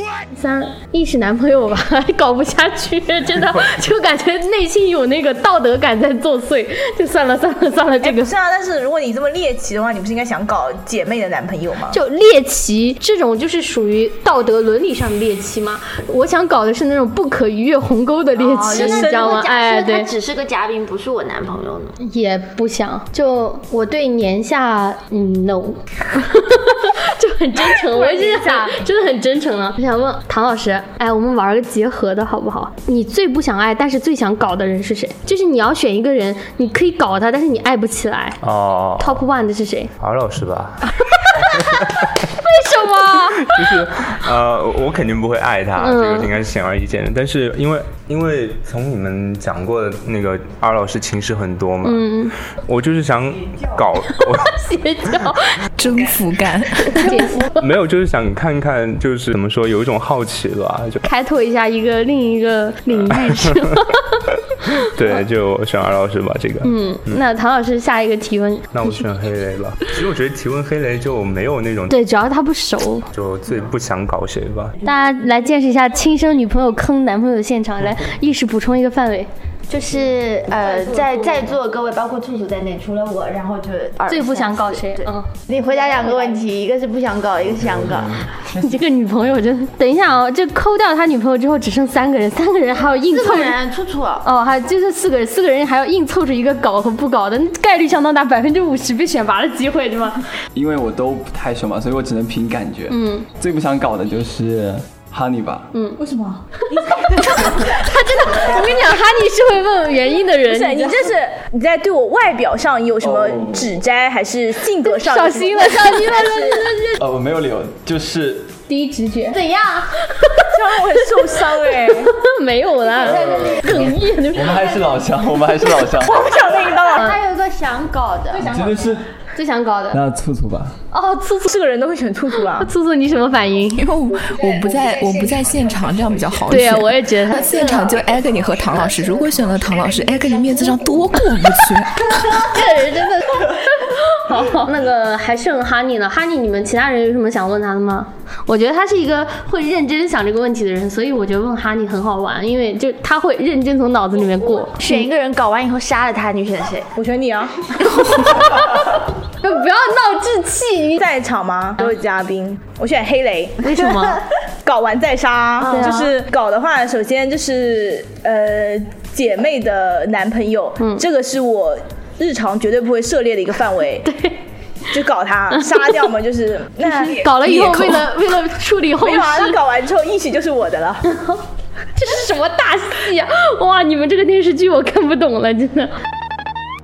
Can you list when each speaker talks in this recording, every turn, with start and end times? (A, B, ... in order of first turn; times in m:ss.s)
0:00.3-0:08.3 A
0:08.0-0:12.0 B
0:11.9-0:20.1 A
0:18.4-0:21.9 C
0:18.8-0:19.5 B
0:22.0-0:38.4 A
0:27.8-0:28.7 B
0:38.4-0:39.2 D
0:39.0-0:39.9 A
0:40.0-0:40.9 D
0:41.1-0:43.8 A
0:43.4-0:52.1 D
0:45.8-0:46.3 A
0:51.8-0:52.4 A
0:52.7-0:54.5 D
0:54.1-0:55.6 A
0:55.8-0:57.3 E
0:56.9-0:57.7 A
0:57.5-1:01.1 D
1:01.0-1:04.0 A
1:02.9-1:03.8 D
1:04.9-1:07.2 D
1:06.6-1:09.0 A
1:08.7-1:12.0 D
1:11.9-1:13.1 A
1:13.1-1:14.8 D
1:14.8-1:19.3 A
1:19.7-1:28.2 C
1:20.9-1:21.5 A
1:24.1-1:25.3 A
1:28.4-1:33.6 A
1:33.1-1:34.2 C
1:34.2-1:40.2 A
1:40.5-1:45.7 F
1:42.9-1:43.3 A
1:45.7-1:46.0 A
1:46.0-1:47.4 B
1:46.7-1:51.1 A
1:50.5-1:56.7 B
1:53.0-1:53.6 F
1:54.8-1:57.0 A
1:57.0-1:58.5 F
1:58.7-2:00.5 A
2:00.5-2:02.1 B
2:01.8-2:04.8 A
2:03.0-2:03.4 B
2:03.1-2:06.2 F
2:05.8-2:07.1 B
2:06.9-2:08.5 C
2:08.5-2:09.1 F
2:09.4-2:10.0 A
2:09.9-2:10.8 F
2:10.9-2:11.5 A
2:11.5-2:12.7 B
2:12.5-2:13.9 A
2:13.8-2:22.4 E
2:16.5-2:18.0 A
2:22.2-2:35.1 A
2:34.8-2:36.9 C
2:37.0-2:37.8 B
2:38.1-2:38.8 A
2:39.4-2:41.0 A
2:41.0-2:43.7 B
2:43.6-2:44.2 A
2:44.6-2:54.1 B
2:45.6-2:46.1 A
2:50.8-2:51.0 A
2:54.0-2:54.4 A
2:54.9-2:58.1 B
2:55.5-2:56.1 A
2:56.8-2:59.6 A
2:59.0-3:01.0 B
3:01.1-3:01.4 A
3:02.0-3:05.9 A